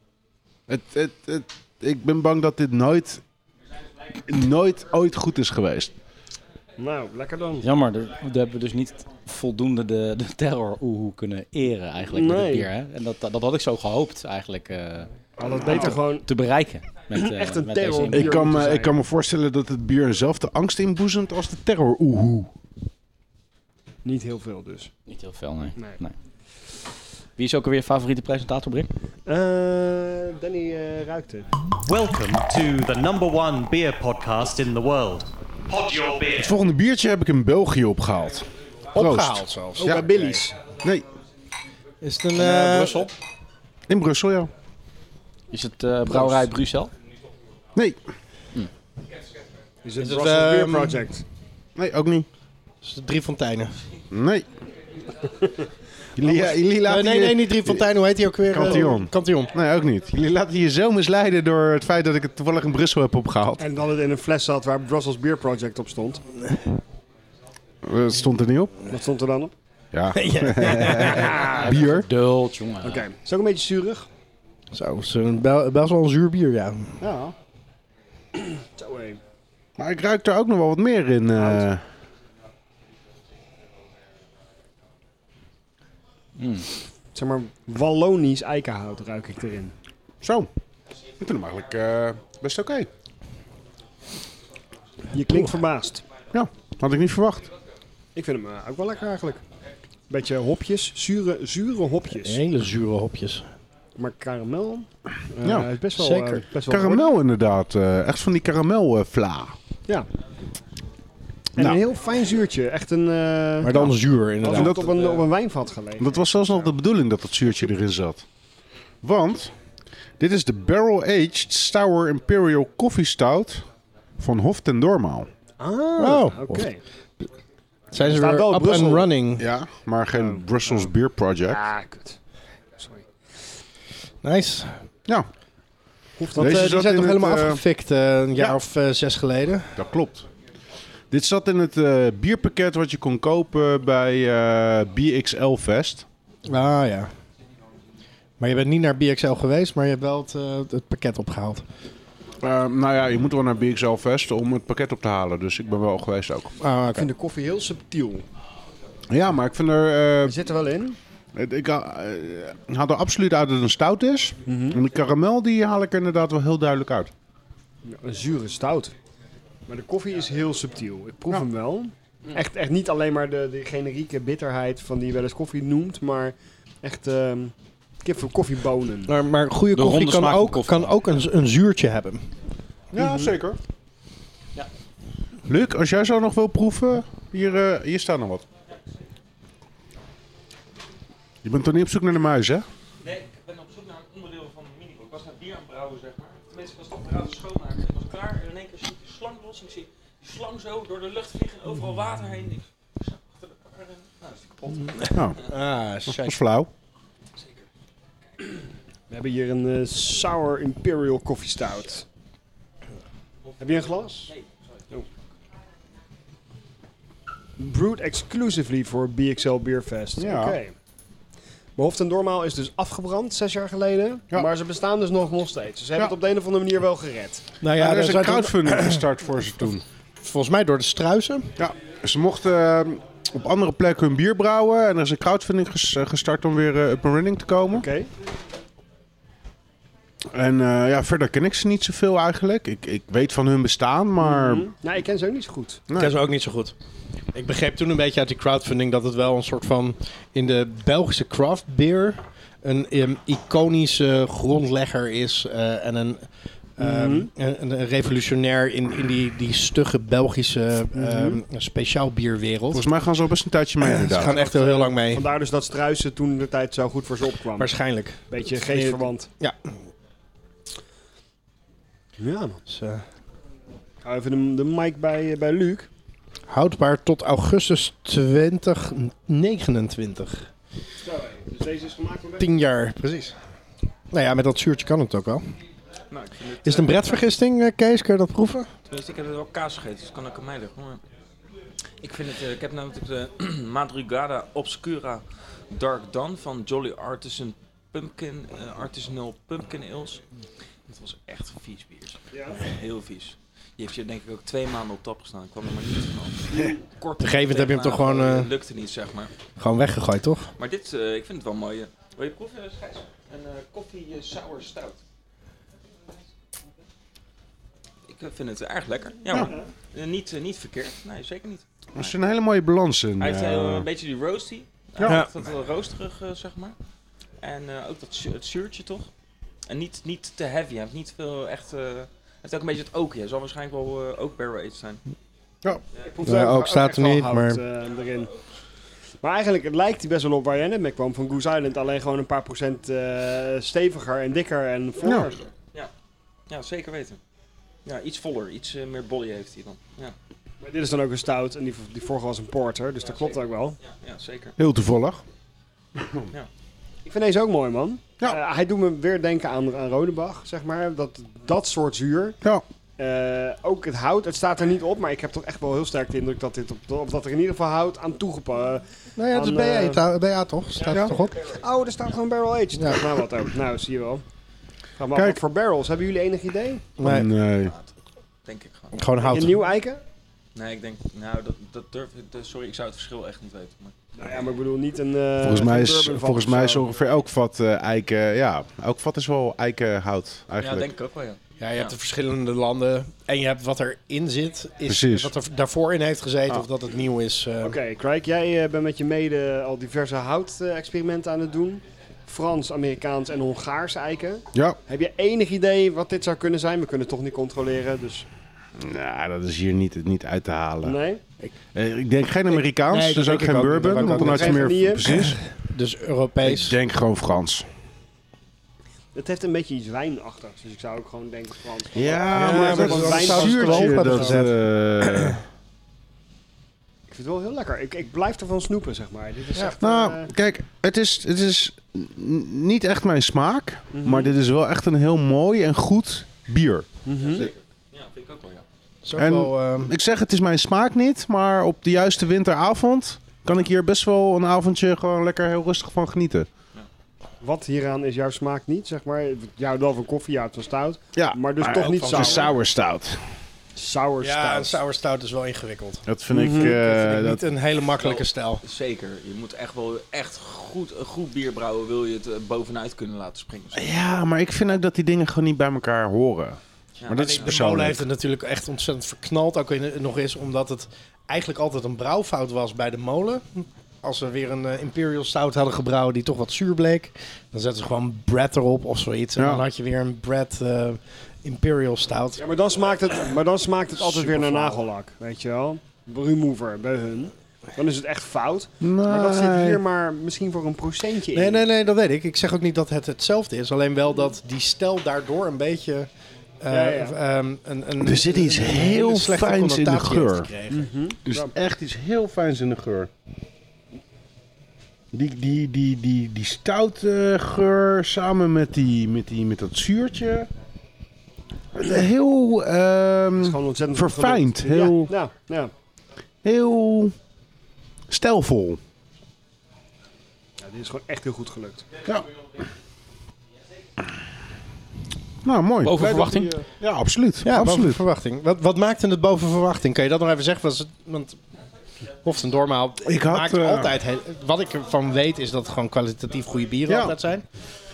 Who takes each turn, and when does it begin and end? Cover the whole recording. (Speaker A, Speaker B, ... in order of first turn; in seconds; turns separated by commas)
Speaker A: 0.7-3.2, Speaker A: 4.2-5.9, Speaker B: 6.8-7.6, Speaker C: 7.6-15.1, Speaker B: 12.1-12.7, Speaker B: 15.4-16.2, Speaker C: 15.7-18.7, Speaker B: 17.1-18.9, Speaker A: 18.1-22.5, Speaker B: 24.0-24.9, Speaker C: 25.1-26.1, Speaker C: 27.4-28.9, Speaker B: 29.3-31.5, Speaker D: 31.8-36.6, Speaker A: 36.4-40.0, Speaker E: 38.9-40.5, Speaker B: 39.8-40.6, Speaker A: 40.8-41.0, Speaker E: 42.0-43.1, Speaker C: 42.3-43.1, Speaker A: 43.9-44.5, Speaker C: 45.5-46.9, Speaker B: 49.8-51.2, Speaker E: 50.0-51.1, Speaker A: 51.8-52.3, Speaker E: 52.8-53.8, Speaker A: 54.1-54.5, Speaker A: 56.1-57.8, Speaker E: 56.8-59.5, Speaker A: 58.5-63.6, Speaker B: 63.6-66.2, Speaker A: 67.8-68.8, Speaker B: 68.9-69.5, Speaker A: 69.9-72.1, Speaker E: 70.1-71.3, Speaker B: 71.0-71.8, Speaker C: 71.5-73.1, Speaker B: 72.8-74.1, Speaker E: 74.7-77.0, Speaker A: 77.0-77.3, Speaker B: 78.4-79.2, Speaker A: 79.8-81.8, Speaker B: 81.3-81.7, Speaker C: 86.4-86.7, Speaker B: 87.1-89.7, Speaker A: 90.2-90.5, Speaker A: 91.2-92.9, Speaker B: 95.1-96.0, Speaker E: 95.2-95.6, Speaker A: 96.3-97.5, Speaker B: 98.1-99.4, Speaker B: 100.1-102.4, Speaker E: 102.1-103.5, Speaker B: 104.0-107.1, Speaker A: 105.4-105.7, Speaker E: 106.0-106.4, Speaker A: 106.7-109.5, Speaker B: 111.5-116.7, Speaker E: 113.6-114.9, Speaker A: 114.5-115.2, Speaker A: 116.0-118.2, Speaker A: 119.0-119.5, Speaker A: 120.2-123.6, Speaker A: 124.2-125.3, Speaker B: 125.6-126.8, Speaker E: 126.0-126.7, Speaker E: 127.9-129.4, Speaker B: 128.0-129.1, Speaker A: 129.3-131.6, Speaker B: 130.1-130.9, Speaker B: 131.4-132.2, Speaker B: 132.8-133.0, Speaker E: 134.2-134.8, Speaker B: 136.2-136.8, Speaker E: 136.3-139.7, Speaker A: 136.3-137.6, Speaker A: 139.8-140.3, Speaker A: 141.1-146.1, Speaker E: 146.4-147.1, Speaker E: 148.4-151.6, Speaker A: 152.4-156.5, Speaker E: 156.6-157.1, Speaker B: 156.9-158.2, Speaker A: 159.1-160.3, Speaker B: 160.2-161.0, Speaker A: 161.3-167.1, Speaker B: 164.5-164.8, Speaker B: 167.8-168.9, Speaker B: 169.7-179.1, Speaker E: 179.1-182.3, Speaker C: 179.7-180.9, Speaker A: 182.9-183.6, Speaker B: 182.9-183.3, Speaker A: 185.5-188.4, Speaker A: 191.4-192.6, Speaker F: 193.0-205.2, Speaker A: 205.1-205.4, Speaker E: 205.4-206.4, Speaker A: 206.1-206.7, Speaker F: 207.4-207.6, Speaker B: 209.1-212.0, Speaker F: 213.4-214.5, Speaker B: 213.6-214.3, Speaker B: 217.6-220.7, Speaker A: 220.2-220.6, Speaker B: 221.8-227.5, Speaker E: 227.6-229.0, Speaker A: 227.8-229.8, Speaker E: 230.2-231.5, Speaker A: 231.6-237.9, Speaker B: 237.7-238.1, Speaker A: 240.3-244.7, Speaker B: 244.2-245.8, Speaker A: 245.9-246.1, Speaker E: 246.0-246.7, Speaker E: 247.3-262.9, Speaker B: 256.8-257.3, Speaker B: 260.9-261.4, Speaker A: 262.7-264.3, Speaker E: 263.8-265.2, Speaker B: 264.2-267.7, Speaker E: 267.6-269.7, Speaker B: 268.3-269.3, Speaker B: 272.2-272.6, Speaker E: 272.7-273.0, Speaker B: 274.0-275.9, Speaker E: 276.5-280.5, Speaker B: 281.0-282.5, Speaker E: 282.4-283.3, Speaker E: 284.1-285.5, Speaker F: 286.1-287.2, Speaker E: 286.6-288.7, Speaker F: 288.9-291.0, Speaker F: 292.0-300.2, Speaker F: 300.9-309.3, Speaker B: 302.3-302.6, Speaker B: 306.5-307.1, Speaker E: 307.2-308.5, Speaker E: 309.6-310.5, Speaker F: 310.6-315.0, Speaker F: 318.1-322.1, Speaker A: 321.9-323.9, Speaker F: 323.2-326.7, Speaker A: 325.0-325.2, Speaker E: 325.0-325.3, Speaker F: 327.4-329.1, Speaker F: 329.7-335.0, Speaker B: 336.0-338.3, Speaker E: 336.2-337.6, Speaker B: 339.2-345.5, Speaker A: 345.0-345.3, Speaker F: 346.5-347.2, Speaker F: 347.8-350.1, Speaker B: 350.6-353.8, Speaker F: 353.1-354.5, Speaker A: 354.6-355.2, Speaker A: 356.0-356.2, Speaker B: 357.1-362.4, Speaker B: 363.0-370.0, Speaker E: 369.1-371.4, Speaker B: 370.8-374.2, Speaker E: 372.7-373.0, Speaker B: 375.0-376.9, Speaker A: 375.1-375.4, Speaker E: 377.0-377.3, Speaker A: 377.0-377.7, Speaker F: 377.6-377.9, Speaker F: 378.4-379.0, Speaker E: 378.9-379.6, Speaker B: 379.3-380.0, Speaker F: 380.5-384.4, Speaker B: 384.2-386.9, Speaker A: 385.4-390.9, Speaker F: 390.6-391.9, Speaker E: 391.6-397.8, Speaker A: 394.9-395.3, Speaker B: 397.6-408.3, Speaker A: 404.5-404.8, Speaker A: 408.8-411.0, Speaker B: 410.8-411.2, Speaker A: 411.7-415.4, Speaker E: 412.5-416.8, Speaker B: 413.9-415.1, Speaker A: 416.4-417.7, Speaker B: 419.1-424.4, Speaker A: 421.9-425.4, Speaker E: 422.3-425.4, Speaker B: 427.1-430.3, Speaker A: 429.8-437.5, Speaker B: 433.9-434.3, Speaker B: 437.0-437.5, Speaker F: 437.2-438.6, Speaker E: 439.0-439.9, Speaker A: 439.2-446.5, Speaker B: 447.4-452.5, Speaker A: 451.1-453.2, Speaker E: 451.9-452.4, Speaker B: 453.8-454.8, Speaker E: 454.2-458.6, Speaker A: 456.1-457.4, Speaker B: 456.3-456.8, Speaker F: 458.0-463.9, Speaker A: 463.7-468.0, Speaker F: 467.0-467.6, Speaker E: 467.1-482.4, Speaker A: 479.4-479.6, Speaker B: 482.4-491.6, Speaker E: 483.9-484.8, Speaker A: 488.8-489.8, Speaker E: 491.3-496.1, Speaker E: 496.6-500.9, Speaker B: 496.7-497.2, Speaker A: 498.0-500.5, Speaker B: 500.7-501.5, Speaker A: 501.2-503.1, Speaker A: 505.1-510.5, Speaker A: 511.7-515.1, Speaker B: 513.4-515.7, Speaker A: 516.4-517.1, Speaker A: 518.1-518.8, Speaker B: 520.6-521.9, Speaker A: 525.4-528.0, Speaker C: 525.8-526.6, Speaker E: 527.4-531.4, Speaker E: 532.2-537.5, Speaker A: 533.0-533.9, Speaker A: 536.9-537.1